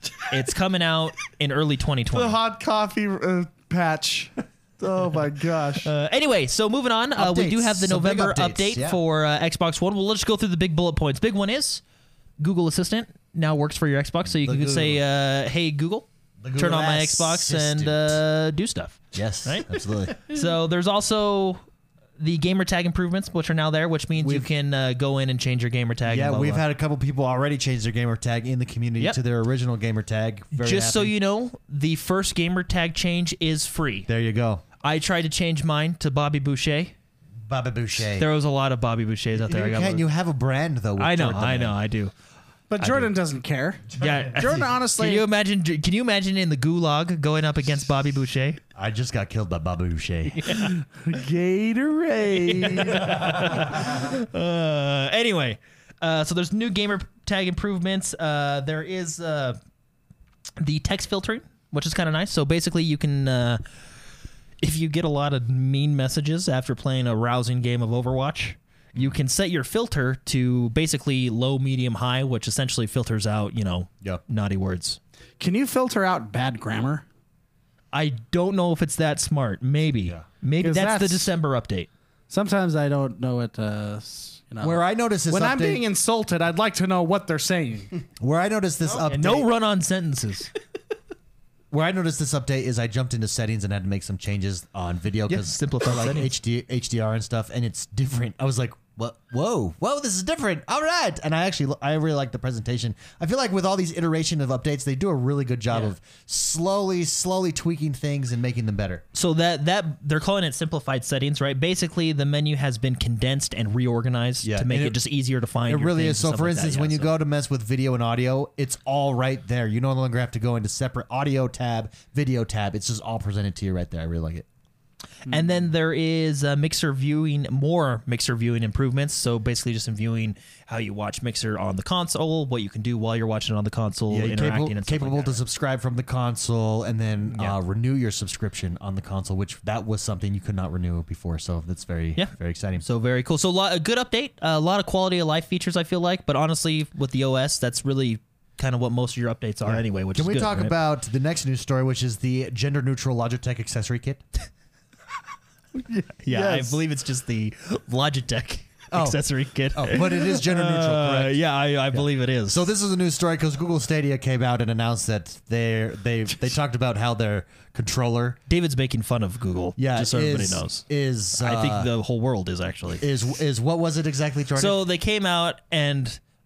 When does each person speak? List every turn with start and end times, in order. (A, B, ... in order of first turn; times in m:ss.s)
0:00.2-0:02.4 A
0:02.1-0:05.9 B
0:05.8-0:11.8 A
0:07.2-0:09.0 C
0:12.4-0:21.6 A
0:14.3-0:15.0 C
0:16.4-0:18.2 C
0:19.1-0:20.4 C
0:22.2-0:26.6 A
0:24.2-0:24.5 C
0:26.0-0:31.1 C
0:30.6-0:34.1 A
0:34.1-0:34.6 C
0:34.8-0:36.9 A
0:37.5-0:38.3 C
0:38.2-0:40.1 A
0:39.4-0:41.8 C
0:41.0-0:42.1 A
0:42.7-0:45.3 B
0:44.0-0:48.6 A
0:48.8-0:50.4 C
0:50.3-0:50.8 A
0:50.5-0:53.3 B
0:52.3-0:59.6 A
1:00.6-1:03.6 A
1:04.6-1:15.0 A
1:15.4-1:17.0 B
1:17.9-1:21.9 A
1:20.6-1:21.3 B
1:22.3-1:27.9 B
1:24.6-1:25.8 C
1:28.2-1:29.5 C
1:29.1-1:30.5 A
1:31.7-1:49.0 C
1:35.3-1:36.3 A
1:49.1-1:57.2 A
1:54.4-1:55.0 C
1:55.7-2:04.5 C
2:05.3-2:15.4 A
2:14.1-2:22.8 C
2:22.2-2:30.7 A
2:29.6-2:34.2 C
2:35.9-2:36.8 B
2:36.2-2:42.6 A
2:38.9-2:39.2 C
2:39.8-2:41.4 C
2:41.9-2:48.4 C
2:48.5-2:53.0 A
2:49.8-2:51.9 C
2:53.0-2:54.8 C
2:54.6-2:56.2 A